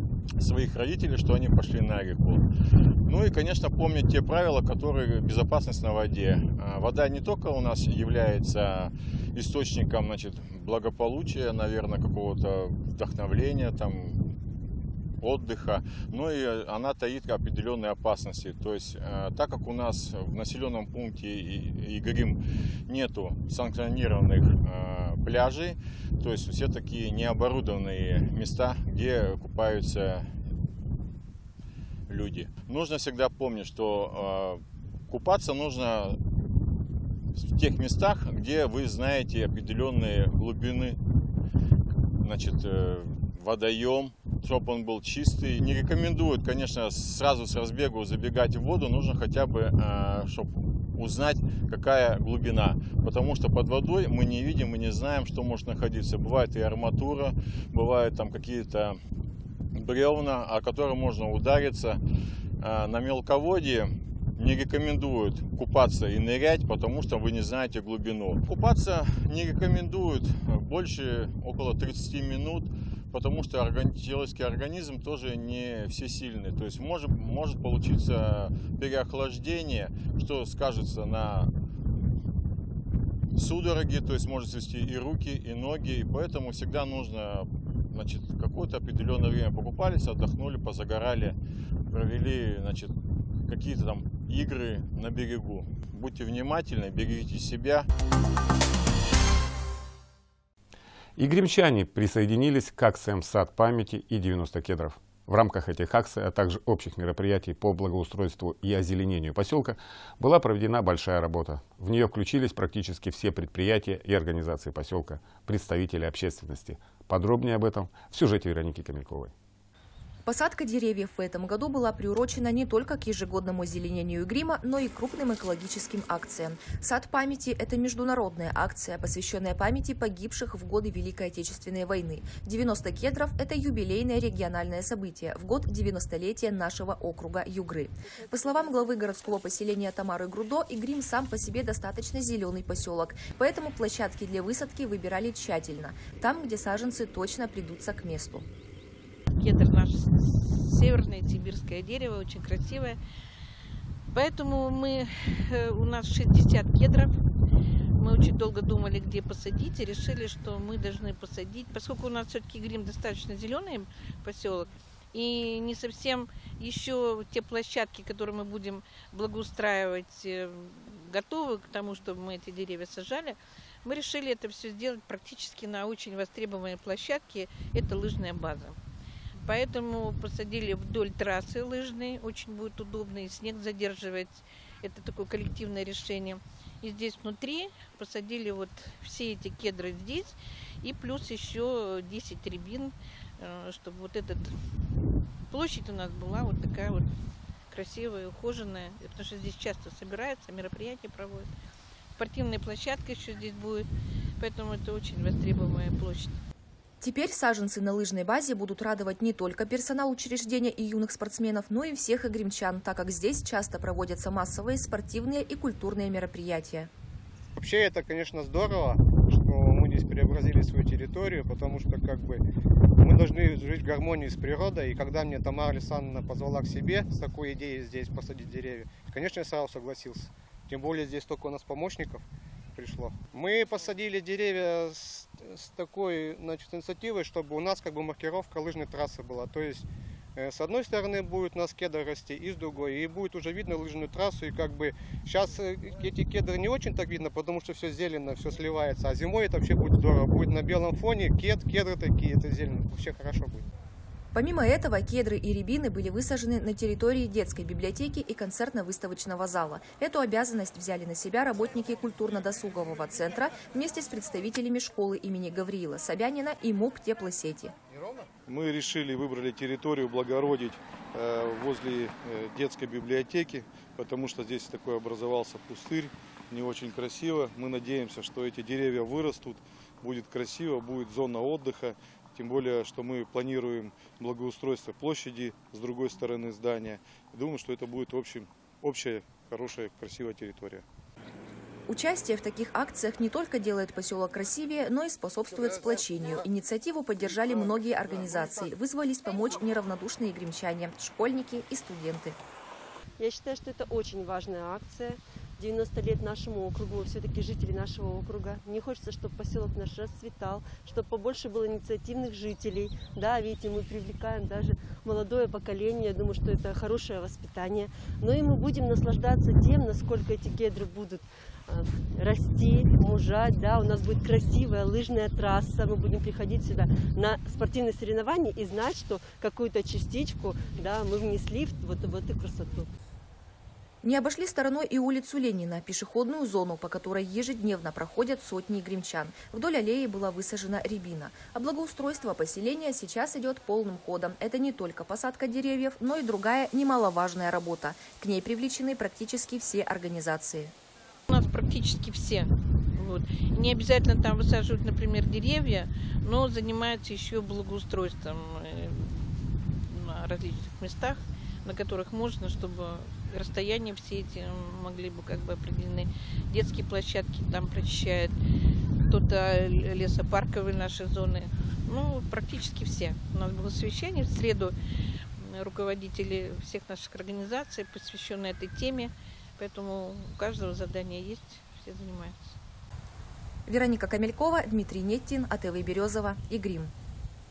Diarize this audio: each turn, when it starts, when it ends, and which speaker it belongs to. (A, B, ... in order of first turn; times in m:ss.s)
0:00.4-0:02.4 A
0:03.1-0:14.2 A
0:15.2-0:30.3 A
0:32.1-0:36.2 A
0:37.4-0:41.0 A
0:42.2-0:59.0 A
0:59.8-1:02.0 A
1:02.6-1:21.5 A
1:23.4-1:31.4 A
1:31.9-1:32.9 A
1:33.5-1:37.9 A
1:41.2-1:59.3 B
2:00.2-2:28.5 C
2:18.4-2:18.7 D
2:29.4-2:33.0 E
2:34.1-2:37.1 E
2:38.0-2:58.8 E
2:59.4-3:14.5 E
3:15.5-3:17.1 E
3:17.7-3:21.5 E
3:22.2-3:23.9 E
3:24.4-3:26.4 E
3:27.0-3:36.9 C
3:37.6-3:42.4 F
3:43.0-3:52.2 F
3:52.8-3:59.8 F
4:00.4-4:13.6 F
4:14.3-4:27.7 C
4:28.5-4:50.8 G
4:51.9-5:02.4 C
5:03.2-5:32.9 D
5:34.0-5:50.7 C
5:51.3-6:08.3 E
6:09.1-6:14.7 E
6:15.4-6:22.6 E
6:23.7-6:26.9 C